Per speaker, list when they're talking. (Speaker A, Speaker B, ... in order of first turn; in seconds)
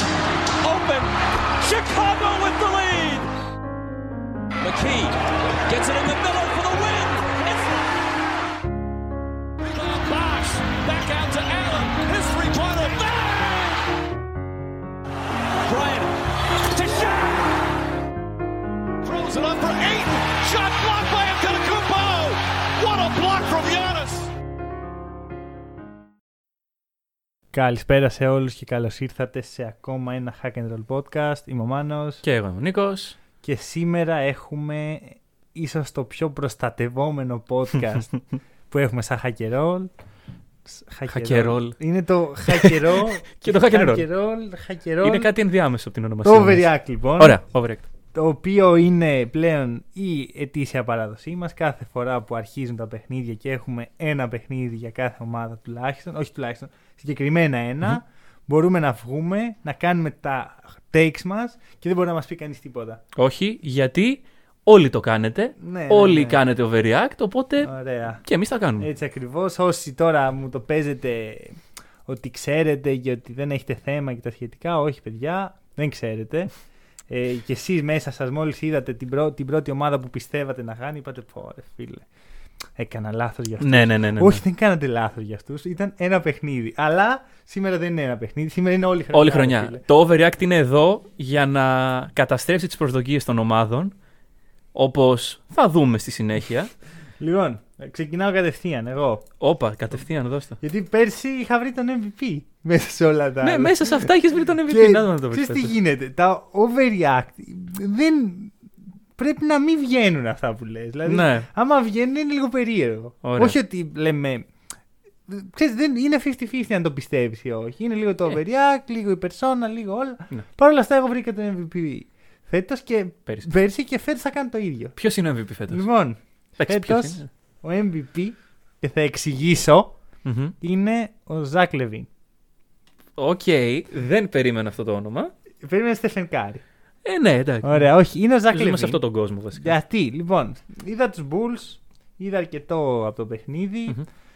Speaker A: 0.6-3.3, 4.6-7.8, 9.6-13.8, 15.7-17.5, 19.0-24.3
Speaker B: 27.5-32.2, 33.4-39.9, 40.7-45.3, 46.2-47.4, 48.1-63.0, 65.6-66.4, 67.6-68.2, 68.8-82.1, 82.8-89.8, 97.2-99.4, 100.6-108.6, 109.2-114.5, 115.3-125.0, 125.7-130.0, 130.6-132.1, 135.6-136.6, 137.6-144.1
Speaker C: 32.2-33.2, 41.1-41.8, 42.5-44.1, 45.0-47.9, 63.1-67.7, 68.2-68.9, 83.6-84.4, 89.1-94.0, 94.7-96.7, 99.4-100.6, 103.4-105.7, 111.0-111.5, 113.2-113.6, 125.0-125.9, 126.5-127.3, 130.2-130.5, 133.2-135.3, 137.1-137.9, 138.5-139.8